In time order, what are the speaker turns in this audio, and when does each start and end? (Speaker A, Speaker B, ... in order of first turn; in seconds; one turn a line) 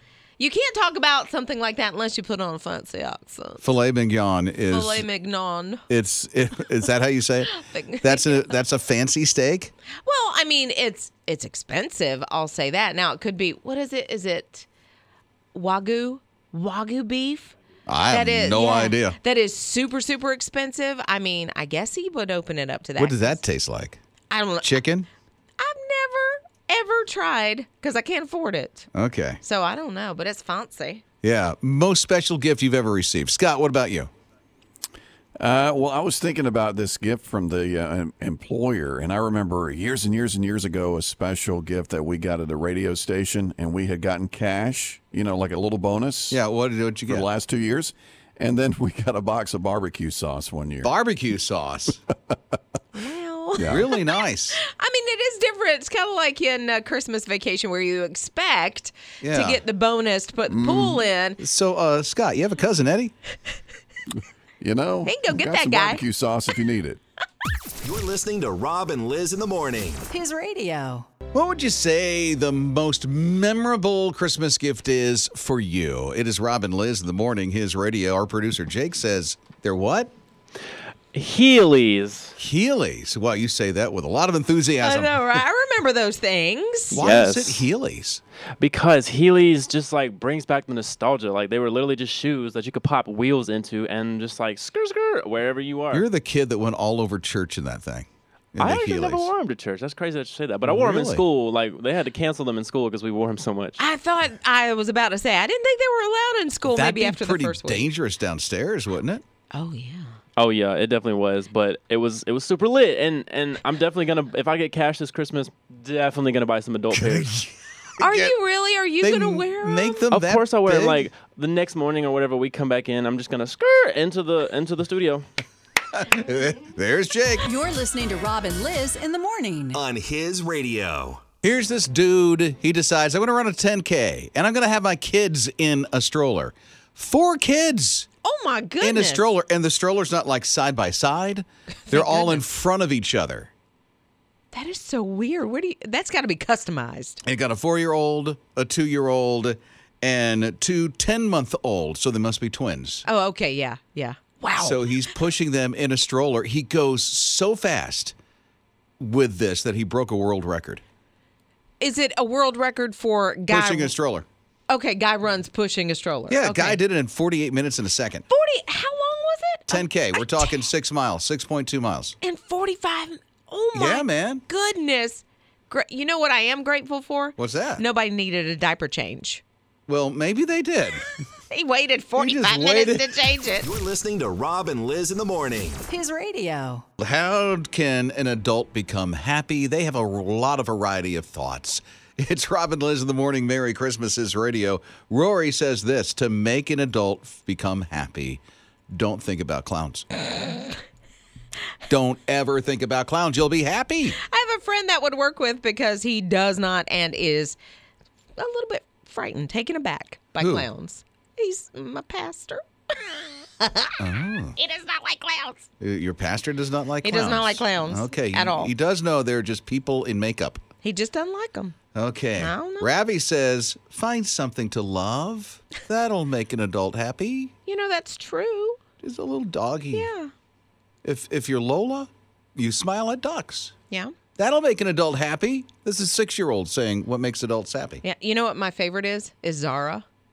Speaker A: 0.4-3.6
Speaker B: 3.6-5.0
Speaker A: 4.7-5.8
Speaker B: 5.9-9.7
Speaker A: 7.5-8.6
Speaker A: 10.1-14.7
Speaker A: 15.5-17.6
Speaker B: 17.9-19.2
Speaker A: 18.1-23.4
Speaker B: 23.0-24.0
Speaker A: 24.3-24.8
Speaker B: 24.6-25.1
Speaker A: 25.6-28.9
Speaker B: 28.9-29.4
Speaker A: 29.4-31.0
Speaker B: 31.2-34.1
Speaker C: 35.4-46.4
Speaker B: 46.3-47.3
Speaker C: 47.1-50.9
Speaker B: 50.8-52.0
Speaker A: 52.9-54.0
Speaker C: 53.6-53.9
Speaker B: 53.7-54.6
Speaker A: 54.6-61.4
Speaker B: 59.2-59.6
Speaker C: 60.5-61.0
Speaker B: 61.4-63.1
Speaker C: 64.6-67.0
Speaker A: 65.0-66.0
Speaker D: 67.8-70.1
Speaker E: 70.1-71.1
Speaker B: 71.3-80.1
Speaker F: 81.1-82.3
Speaker B: 82.4-85.2
Speaker A: 84.8-87.0
Speaker B: 86.9-88.2
Speaker F: 86.9-87.7
Speaker F: 88.6-96.1
Speaker B: 95.9-99.3
Speaker F: 98.6-103.8
Speaker B: 100.6-101.3
Speaker A: 103.8-107.9
Speaker B: 106.7-109.2
Speaker A: 109.5-110.2
Speaker F: 110.4-117.3
Speaker B: 116.9-118.3
Speaker A: 118.0-120.0
Speaker B: 119.0-121.1
Speaker F: 120.1-125.2
Speaker B: 125.9-127.5
Speaker E: 127.6-129.8
Speaker D: 129.7-131.2
Speaker B: 131.4-138.1
Speaker A: 138.2-139.3
Speaker B: 138.8-143.5
Speaker A: 141.9-142.4
Speaker A: 144.5-147.2
Speaker B: 147.2-153.1
Speaker A: 153.1-154.9
Speaker B: 154.6-158.2
Speaker B: 159.0-160.8
Speaker A: 161.8-163.9
Speaker B: 163.5-164.3
Speaker A: 164.7-166.8
Speaker B: 166.3-168.2
Speaker A: 168.3-170.6
Speaker B: 169.7-172.2
Speaker A: 172.2-179.4
Speaker B: 173.7-174.4
Speaker B: 177.4-177.8
Speaker B: 179.9-181.1
Speaker A: 181.5-183.7
Speaker B: 182.2-183.1
Speaker D: 183.6-185.8
Speaker E: 185.9-186.8
Speaker B: 187.0-200.1
Speaker B: 201.9-204.2
Speaker A: 204.2-207.6
Speaker A: 208.4-214.0
Speaker B: 210.4-210.7
Speaker B: 214.0-214.6
Speaker A: 214.6-215.7
Speaker B: 215.8-220.6
Speaker A: 217.0-218.7
Speaker A: 220.8-221.8
Speaker B: 221.9-227.5
Speaker A: 222.4-222.9
Speaker A: 227.7-228.8
Speaker B: 229.0-230.1
Speaker A: 229.9-230.3
Speaker B: 231.0-233.7
Speaker B: 234.4-238.0
Speaker A: 238.0-240.1